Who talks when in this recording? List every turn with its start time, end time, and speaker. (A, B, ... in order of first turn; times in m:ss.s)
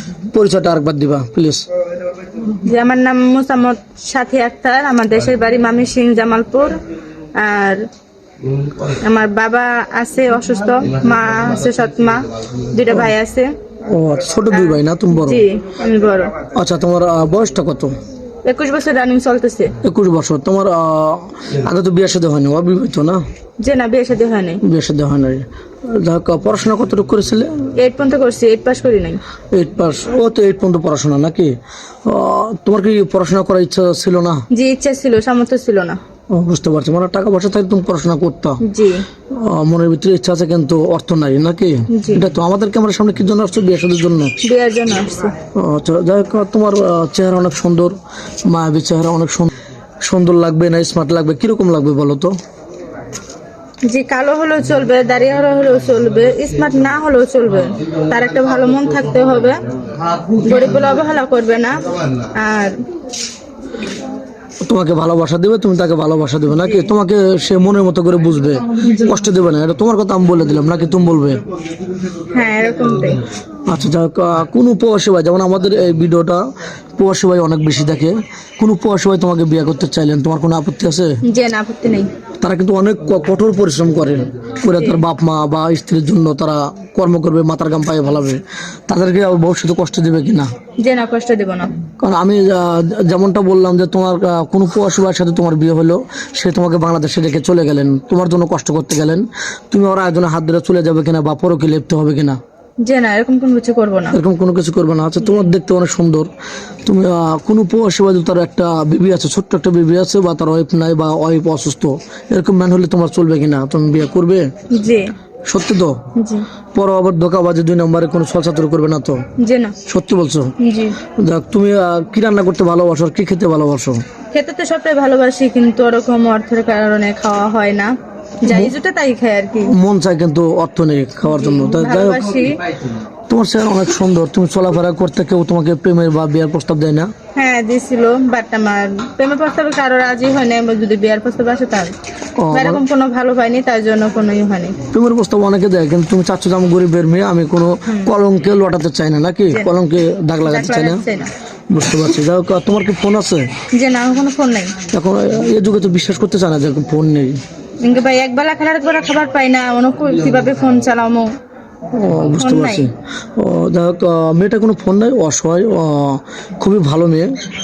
0:00.3-0:01.6 A
0:02.5-0:06.8 B
0:07.4-0:07.8 B
0:08.9-0:13.5 B
0:13.9-0:15.4 A
0:14.5-0:16.3 B
0:16.5-0:17.9 A
0:18.4-0:19.7 B
0:19.8-0:23.2 A
0:23.6-0:24.6 B
0:24.6-0:27.7 A
0:27.8-0:29.2 B
0:29.5-0:31.5 A
0:32.0-0:34.4 A
0:34.5-0:36.0 B
0:36.3-0:38.6 A
0:38.6-0:39.0 B
0:39.4-0:44.3 A
0:41.9-0:42.2 B
0:44.4-0:45.3 B
0:45.5-0:48.0 A
0:48.5-0:49.5 A
0:50.0-0:52.3 A
0:53.9-0:59.6 B
1:00.3-1:02.8 B
1:04.6-1:11.4 A
1:06.5-1:06.9 B
1:12.3-1:13.2 B
1:13.7-1:16.4 A
1:17.0-1:21.2 A
1:21.2-1:22.1 B
1:22.4-1:30.5 A
1:24.8-1:25.0 B
1:30.8-1:31.8 B
1:32.0-1:42.4 A
1:42.8-1:44.2 B
1:44.1-1:46.3 A
1:46.8-1:54.5 A
1:54.7-1:55.1 B
1:55.5-1:56.0 A
1:56.2-1:56.4 B
1:56.7-1:59.2 A
1:59.4-1:59.8 B
1:59.8-2:00.5 A
2:00.6-2:01.0 B
2:01.2-2:04.0 A
2:04.3-2:09.7 B
2:08.5-2:08.7 A
2:09.6-2:12.4 A
2:11.3-2:12.6 B
2:13.3-2:17.1 A
2:17.4-2:21.9 B
2:22.4-2:22.8 A
2:22.5-2:24.8 B
2:24.9-2:31.0 A
2:27.9-2:28.1 B
2:30.4-2:31.3 B
2:31.7-2:33.5 A
2:33.7-2:34.8 B
2:34.9-2:37.4 A
2:37.8-2:41.3 B
2:41.9-2:47.3 A
2:42.4-2:42.8 B